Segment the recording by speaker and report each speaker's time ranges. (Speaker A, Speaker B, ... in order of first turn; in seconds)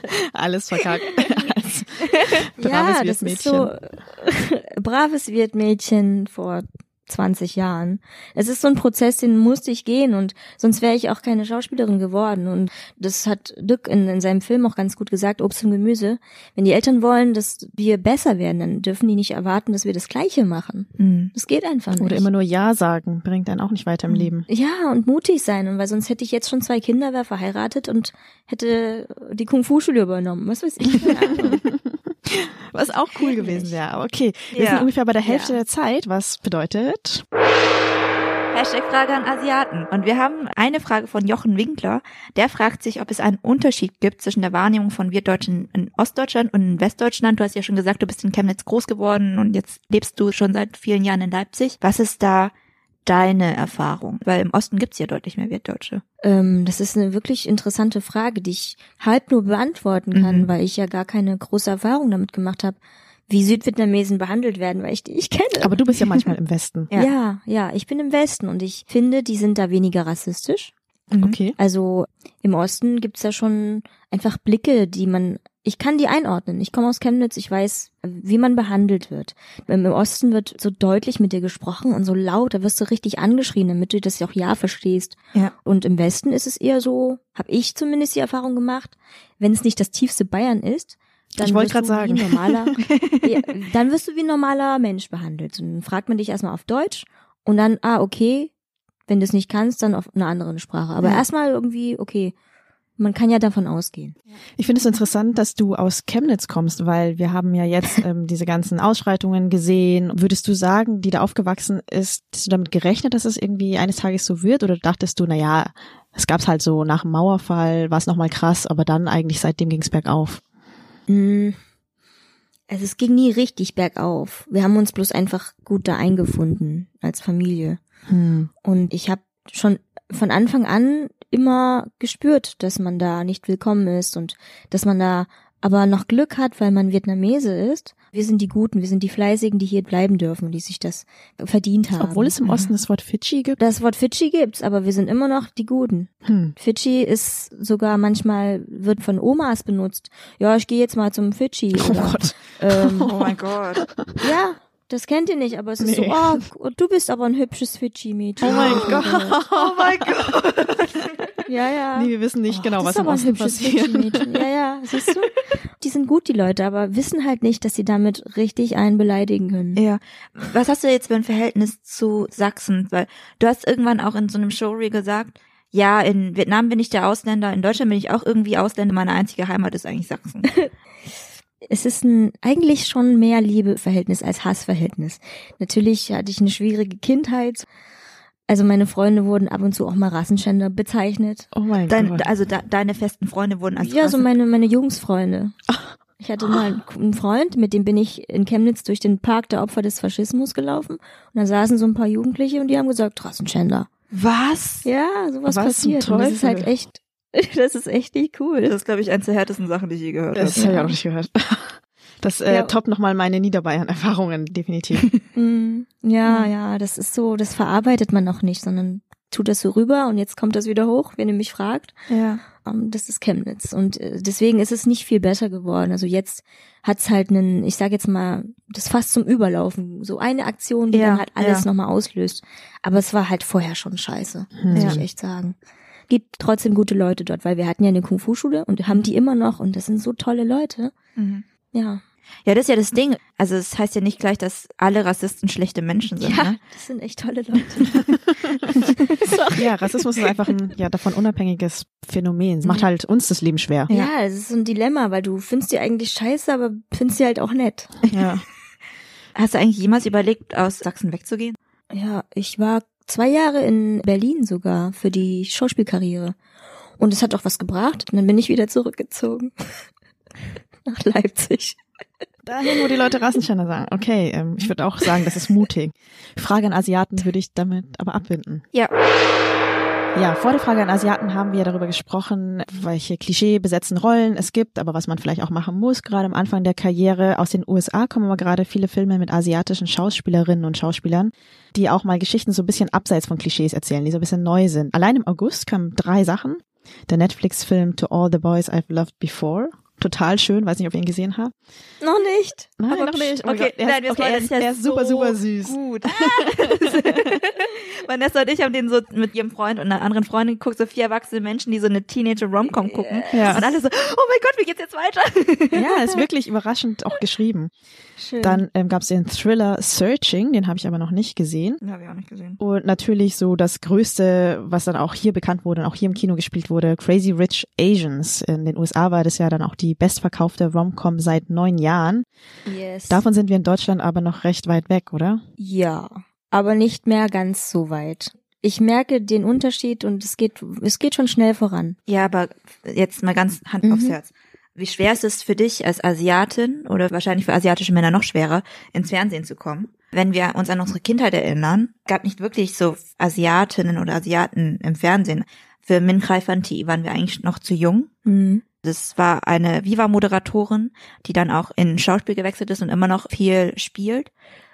Speaker A: 0.2-3.7, 22.0-24.5, 31.1-37.2, 65.6-66.9, 71.1-71.6, 91.4-92.7, 104.6-120.4, 128.1-128.5, 141.9-143.6, 146.3-146.5, 151.7-154.3, 155.8-156.4, 158.4-160.3, 161.9-164.2, 191.5-192.3, 205.5-206.7, 210.3-215.1, 234.6-235.0, 249.6-253.9, 258.1-258.4, 272.4-278.6, 280.1-301.5, 302.8-307.1, 313.3-313.6, 315.8-317.7, 318.4-321.8, 322.6-332.2, 333.1-335.4
Speaker B: 2.6-22.3, 24.5-31.6, 33.2-33.8, 56.2-62.8, 63.3-66.3, 66.9-70.7, 71.6-98.5, 99.1-102.3, 103.0-104.2, 121.1-121.6, 122.7-127.8, 128.6-142.3, 143.6-153.1, 154.2-159.3, 161.5-169.8, 181.7-187.7, 188.5-191.5, 193.8-195.6, 196.2-203.9, 204.8-208.8, 210.6-211.0, 215.3-222.0, 222.6-235.6, 236.1-240.9, 241.7-242.0, 246.2-248.0, 249.2-249.6, 253.9-257.9, 261.9-266.4, 267.0-269.5, 270.9-271.8, 302.0-302.8, 312.6-313.6, 318.2-318.6, 332.7-333.2, 335.6-342.0, 343.8-344.2, 358.3-358.6
Speaker C: 21.0-21.3, 34.5-35.5, 38.5-52.5, 53.1-56.0, 60.1-60.5, 92.9-93.3, 142.4-142.7, 153.0-153.9, 158.4-161.3, 169.8-180.5, 191.9-194.3, 204.1-204.9, 208.6-210.7, 222.1-222.4, 230.9-231.7, 234.7-235.0, 241.2-241.4, 242.4-246.6, 259.4-261.6, 302.9-315.8, 321.8-322.6, 342.1-358.1, 358.8-364.3